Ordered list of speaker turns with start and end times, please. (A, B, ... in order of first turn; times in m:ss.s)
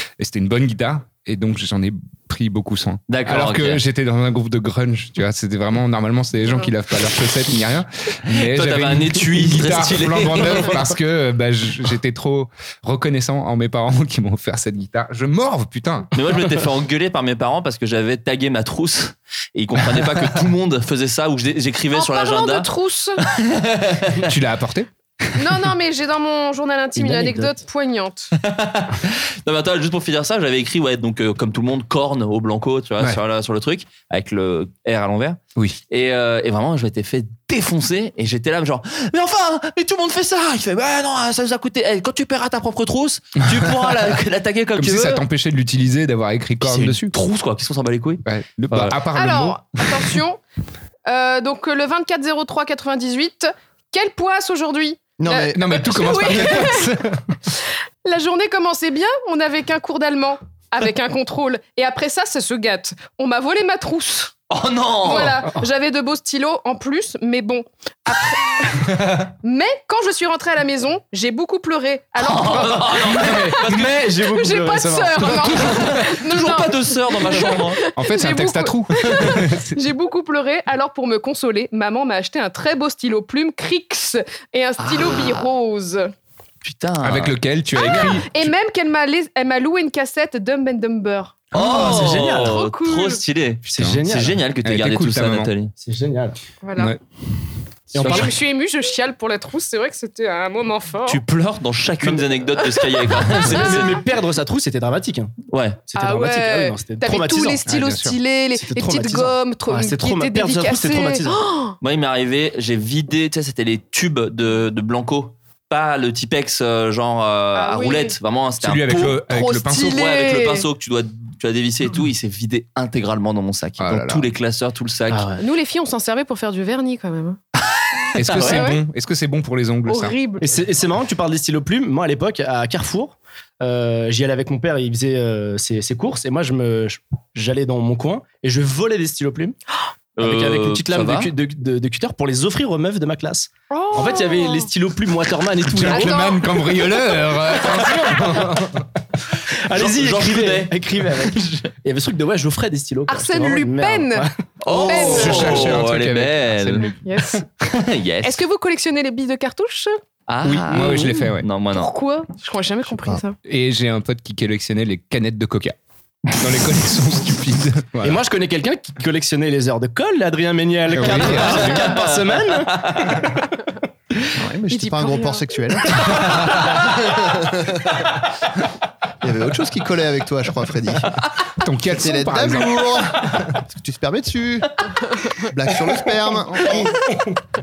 0:00.2-0:16.1 A
0:03.1-0:03.8 B
0:08.3-0:10.9 B
0:16.1-0:22.7 B
0:21.9-0:23.2 C
0:23.2-0:24.2 B
0:24.2-0:24.9 A
0:25.4-0:28.3 C
0:27.0-0:27.5 D
0:28.4-0:45.2 B
0:44.8-0:47.2 A
0:46.6-0:48.9 B
0:48.2-0:49.9 A
0:49.1-0:50.4 C
0:51.0-0:57.0 C
0:55.2-0:55.8 E
0:55.5-0:57.2 A
0:58.0-1:04.3 C
1:04.5-1:05.4 B
1:05.0-1:26.1 C
1:12.2-1:14.0 B
1:12.5-1:16.0 D
1:15.3-1:17.8 B
1:17.9-1:19.8 A
1:24.8-1:25.5 B
1:26.6-1:27.3 B
1:27.0-1:28.5 A
1:27.8-1:33.2 C
1:27.9-1:28.2 B
1:31.5-1:32.6 D
1:31.5-1:35.7 B
1:33.6-1:34.4 D
1:33.8-1:34.0 A
1:34.6-1:35.5 A
1:35.8-1:36.4 D
1:36.6-1:36.9 C
1:37.9-1:38.3 D
1:38.0-1:38.3 B
1:38.0-1:41.2 C
1:41.0-1:44.0 B
1:42.0-1:42.4 D
1:43.2-1:45.3 D
1:43.3-1:44.0 C
1:45.5-1:45.8 B
1:45.9-1:47.6 D
1:46.0-1:51.8 C
1:47.6-1:48.2 A
1:48.5-1:51.4 D
1:51.8-1:59.2 B
1:57.5-1:58.2 C
1:58.6-2:00.0 A
1:59.2-2:00.6 C
1:59.8-2:05.3 B
2:03.8-2:04.2 A
2:05.1-2:05.4 D
2:05.4-2:07.4 C
2:08.1-2:10.2 A
2:08.2-2:08.5 B
2:08.4-2:08.8 C
2:09.8-2:10.6 C
2:10.4-2:19.6 D
2:20.2-2:21.3 B
2:20.2-2:26.3 D
2:23.7-2:24.7 C
2:25.6-2:28.6 A
2:25.8-2:26.8 C
2:27.6-2:28.1 C
2:27.9-2:28.7 D
2:29.6-2:35.7 D
2:29.7-2:31.6 B
2:33.1-2:34.3 C
2:34.6-2:36.9 B
2:34.7-2:37.0 A
2:34.9-2:35.6 C
2:36.8-2:37.4 C
2:37.7-2:38.4 B
2:38.2-2:40.0 C
2:40.3-2:41.9 B
2:40.4-2:41.5 A
2:40.8-2:41.2 C
2:41.7-2:43.4 C
2:43.4-2:45.8 A
2:46.3-2:48.2 A
2:48.0-2:53.3 D
2:50.9-2:51.9 A
2:51.0-2:53.4 B
2:54.4-2:56.3 E
2:54.7-2:55.6 C
2:56.9-2:58.0 E
2:59.2-3:01.0 E
3:01.6-3:02.9 A
3:01.9-3:04.8 E
3:05.4-3:06.9 E